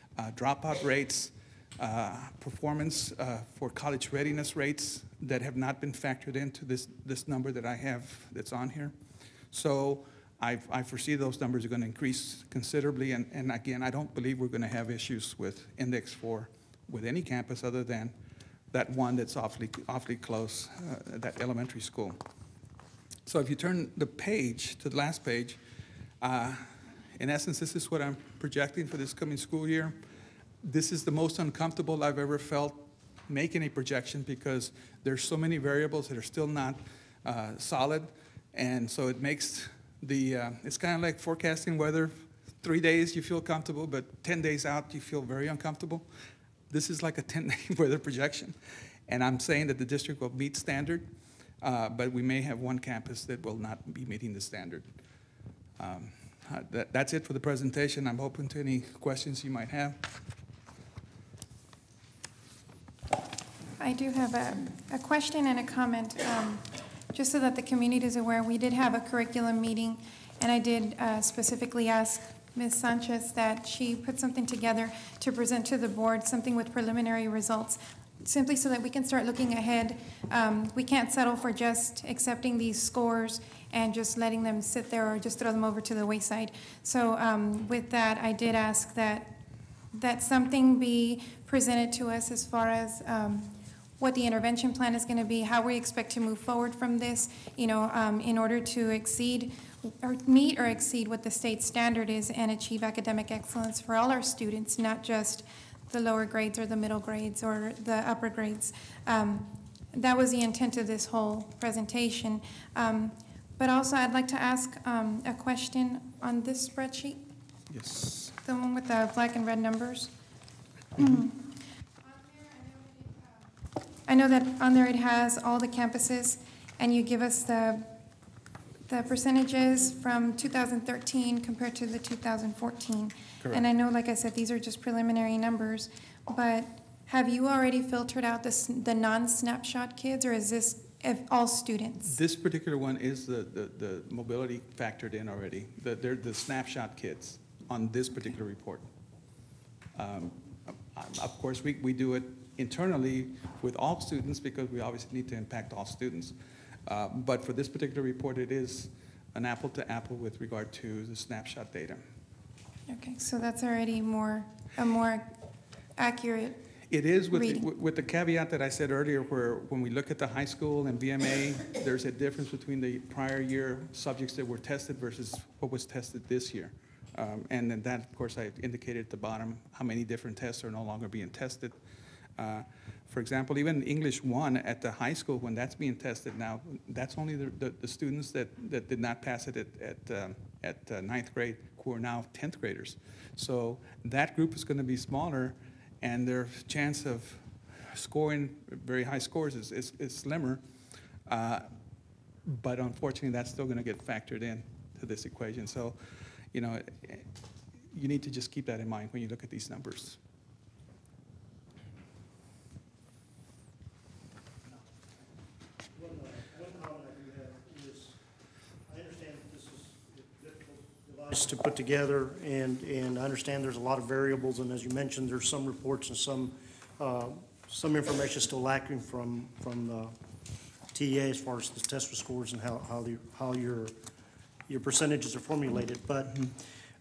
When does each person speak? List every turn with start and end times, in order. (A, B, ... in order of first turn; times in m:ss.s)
0:00.2-0:08.9 A
0:09.5-0:18.1 A
0:18.7-0:22.2 A
0:23.2-0:25.6 A
0:26.2-0:26.6 A
0:27.2-0:30.0 A
0:30.6-0:46.1 A
0:46.7-0:48.6 A
0:49.1-0:51.1 A
0:51.6-0:54.9 A
0:55.8-1:00.0 A
1:03.8-1:29.4 B
1:29.9-1:57.2 B
1:57.7-1:58.2 A
1:58.4-2:00.1 B
2:01.0-2:01.4 B
2:02.4-2:03.3 B
2:04.0-2:07.9 B
2:08.9-2:22.2 B
2:22.0-2:28.8 A
2:29.9-2:36.3 A
2:36.8-2:42.0 A
2:42.9-2:45.3 B
2:46.0-2:46.7 B
2:46.9-3:01.8 A
2:47.3-2:47.6 B
3:02.4-3:20.6 A
3:21.3-3:21.7 A
3:22.4-3:26.0 A
3:26.5-3:27.2 A
3:27.9-3:30.2 A
3:35.9-3:38.2 C
3:38.9-3:50.1 C
3:50.9-3:53.9 C
3:54.7-3:56.5 C